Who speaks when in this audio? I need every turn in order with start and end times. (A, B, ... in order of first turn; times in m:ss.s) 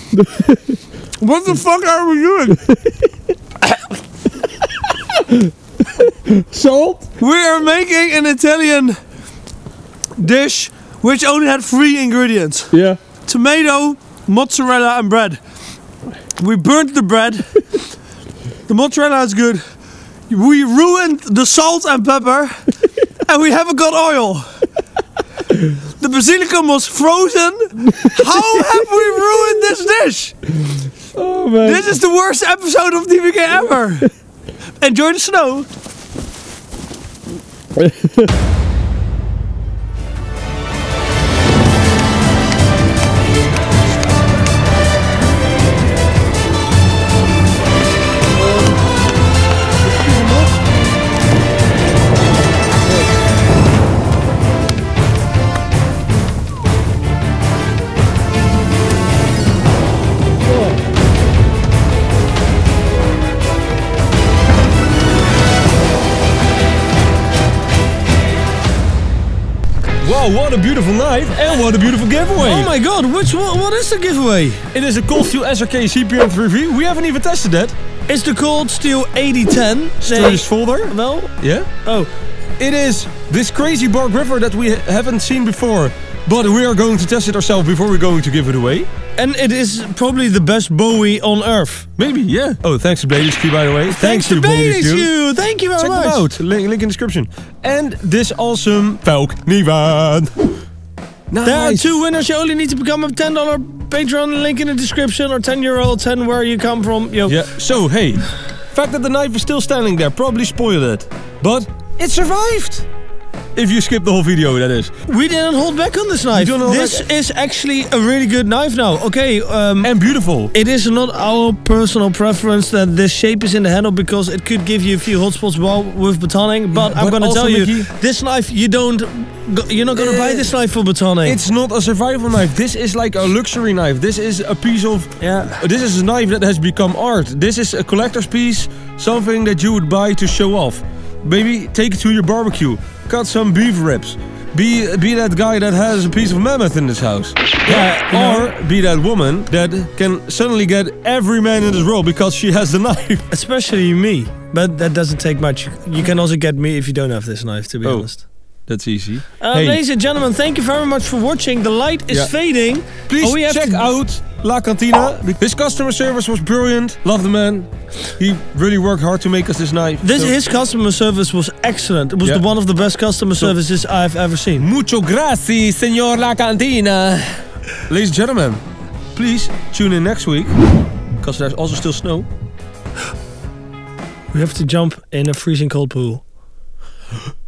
0:00.1-0:00.8 A
0:01.2-0:02.7 B
0:05.2-0:07.0 A
0:07.2-0:09.0 B
0:10.2-0:12.7 B
0:12.7-0:13.0 A
0:13.3-0:15.4 B
0:16.4-0:17.5 B
0:18.7-0:19.6 B
0:20.3-0:24.5 B
0:25.6-0:30.5 B
0:31.2-0:32.0 A
0:31.6-0:34.1 B
0:34.8-0:35.7 B
0:37.8-0:38.3 A
0:50.0-0:50.5 B
1:00.5-1:00.8 B
1:10.0-1:12.7 A
1:12.4-1:14.6 B
1:14.7-1:17.8 A
1:18.1-1:22.1 B
1:20.0-1:21.7 A
1:22.6-1:28.9 A
1:29.2-1:31.9 B
1:32.0-1:35.1 A
1:33.9-1:36.3 B
1:35.8-1:40.3 A
1:41.3-1:42.0 A
1:41.4-1:47.4 B
1:47.3-1:52.9 A
1:53.6-1:54.9 A
1:55.1-1:59.9 B
1:56.3-1:57.1 A
1:59.8-2:00.5 A
2:00.5-2:11.4 B
2:06.7-2:07.9 A
2:10.0-2:10.5 A
2:11.2-2:33.2 A
2:15.2-2:15.6 B
2:27.7-2:28.5 B
2:33.3-2:38.2 B
2:37.8-2:39.8 A
2:39.4-2:44.0 B
2:43.1-2:50.4 A
2:50.0-2:54.7 B
2:54.6-2:58.6 A
2:59.2-3:00.6 A
3:01.2-3:02.3 A
3:04.3-3:06.2 B